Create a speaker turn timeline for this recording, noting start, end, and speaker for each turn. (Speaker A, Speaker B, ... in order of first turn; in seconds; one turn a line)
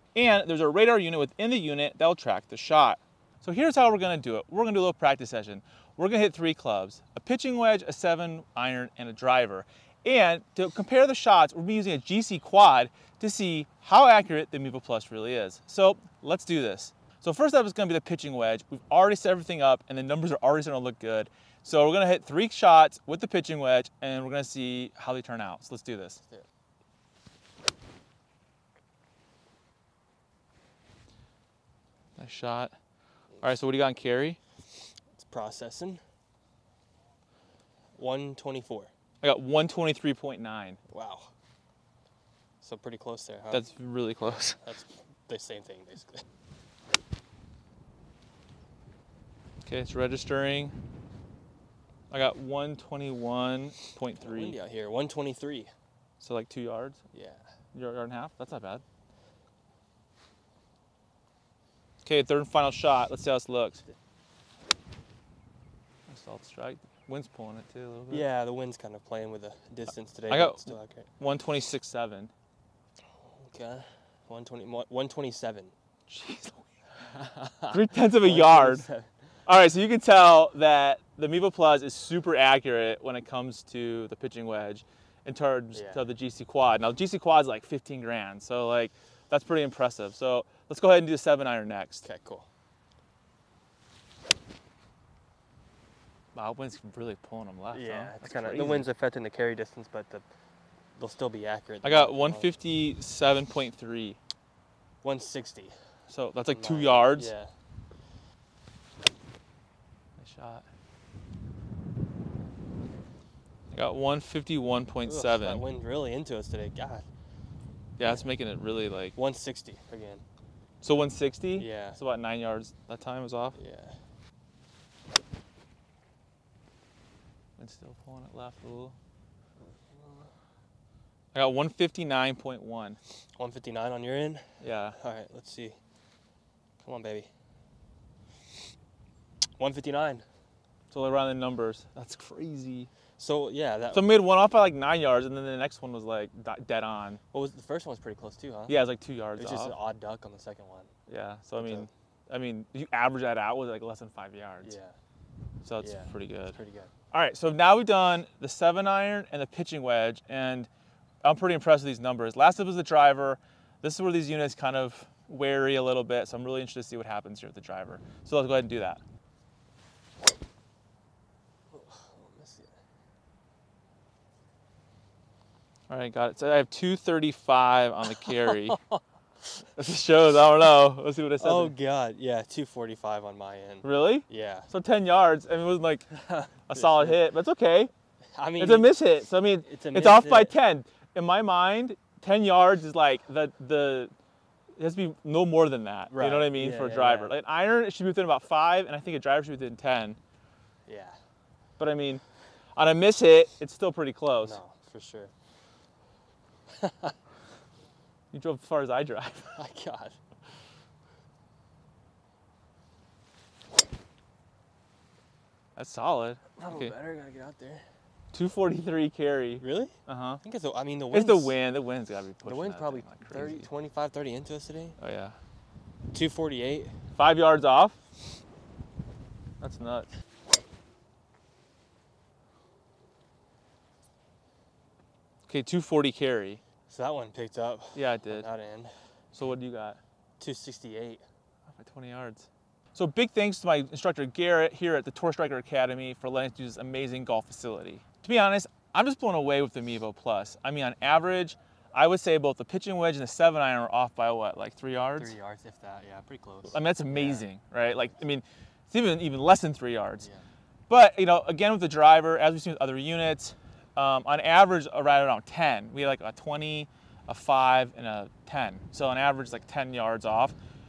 Speaker A: 0.1-26.2
Speaker A: 32.2-32.7
Speaker A: 33.4-34.4
Speaker B: 35.1-36.0
Speaker B: 38.0-38.9
Speaker A: 39.2-40.8
Speaker B: 40.9-41.3
Speaker B: 42.6-43.6
Speaker A: 43.5-44.6
Speaker B: 44.6-46.2
Speaker A: 49.6-50.8
Speaker A: 52.1-54.6
Speaker B: 54.2-55.7
Speaker A: 56.2-57.0
Speaker B: 57.1-57.4
Speaker A: 57.7-58.8
Speaker A: 62.0-63.8
Speaker A: 66.1-68.3
Speaker B: 68.1-71.1
Speaker A: 70.3-72.3
Speaker B: 73.2-75.7
Speaker A: 76.1-76.7
Speaker B: 77.0-79.1
Speaker A: 77.7-78.9
Speaker A: 79.5-92.0
Speaker B: 85.7-86.0
Speaker B: 92.0-92.5
Speaker A: 96.3-98.9
Speaker B: 97.7-100.3
Speaker B: 101.0-102.5
Speaker A: 101.8-104.2
Speaker B: 105.0-105.8
Speaker A: 106.1-107.3
Speaker B: 106.5-107.5
Speaker A: 110.2-110.6
Speaker A: 113.7-115.6
Speaker B: 115.0-117.1
Speaker A: 118.0-119.2
Speaker B: 118.0-118.3
Speaker B: 119.2-120.2
Speaker A: 120.8-123.6
Speaker B: 121.6-122.0
Speaker B: 123.5-124.0
Speaker A: 127.6-129.0
Speaker B: 129.9-130.3
Speaker A: 131.3-133.0
Speaker B: 133.4-135.8
Speaker A: 134.6-135.0
Speaker B: 136.8-137.3
Speaker B: 139.6-140.2
Speaker A: 140.9-142.9
Speaker B: 143.2-144.1
Speaker A: 143.9-147.2
Speaker B: 147.3-148.8
Speaker A: 148.7-149.8
Speaker B: 149.4-150.9
Speaker A: 151.1-154.8
Speaker B: 151.6-151.9
Speaker B: 154.6-155.0
Speaker A: 155.6-156.6
Speaker B: 155.8-156.9
Speaker A: 157.1-160.7
Speaker A: 161.2-169.0
Speaker B: 171.7-172.8
Speaker A: 175.9-178.8
Speaker B: 178.2-178.9
Speaker A: 179.8-181.7
Speaker B: 181.4-184.7
Speaker A: 183.8-186.1
Speaker B: 186.1-187.2
Speaker A: 186.7-187.9
Speaker B: 188.3-188.9
Speaker A: 188.6-194.1
Speaker B: 189.6-190.6
Speaker A: 194.8-200.2
Speaker B: 196.1-197.3
Speaker B: 200.9-201.2
Speaker A: 201.8-202.2
Speaker A: 202.8-204.6
Speaker B: 204.4-205.3
Speaker B: 206.8-207.1
Speaker A: 208.3-209.6
Speaker B: 209.6-210.2
Speaker A: 215.8-216.9
Speaker B: 216.6-217.8
Speaker A: 218.3-220.4
Speaker B: 219.6-221.6
Speaker A: 221.1-223.7
Speaker B: 222.4-225.0
Speaker A: 225.0-225.4
Speaker B: 226.1-227.0
Speaker A: 227.2-228.0
Speaker A: 229.6-230.1
Speaker A: 235.5-236.6
Speaker B: 236.9-238.9
Speaker A: 237.9-238.5
Speaker A: 239.3-240.0
Speaker B: 240.4-241.2
Speaker A: 241.7-255.3
Speaker B: 255.2-257.5
Speaker A: 256.7-260.3
Speaker A: 260.9-270.6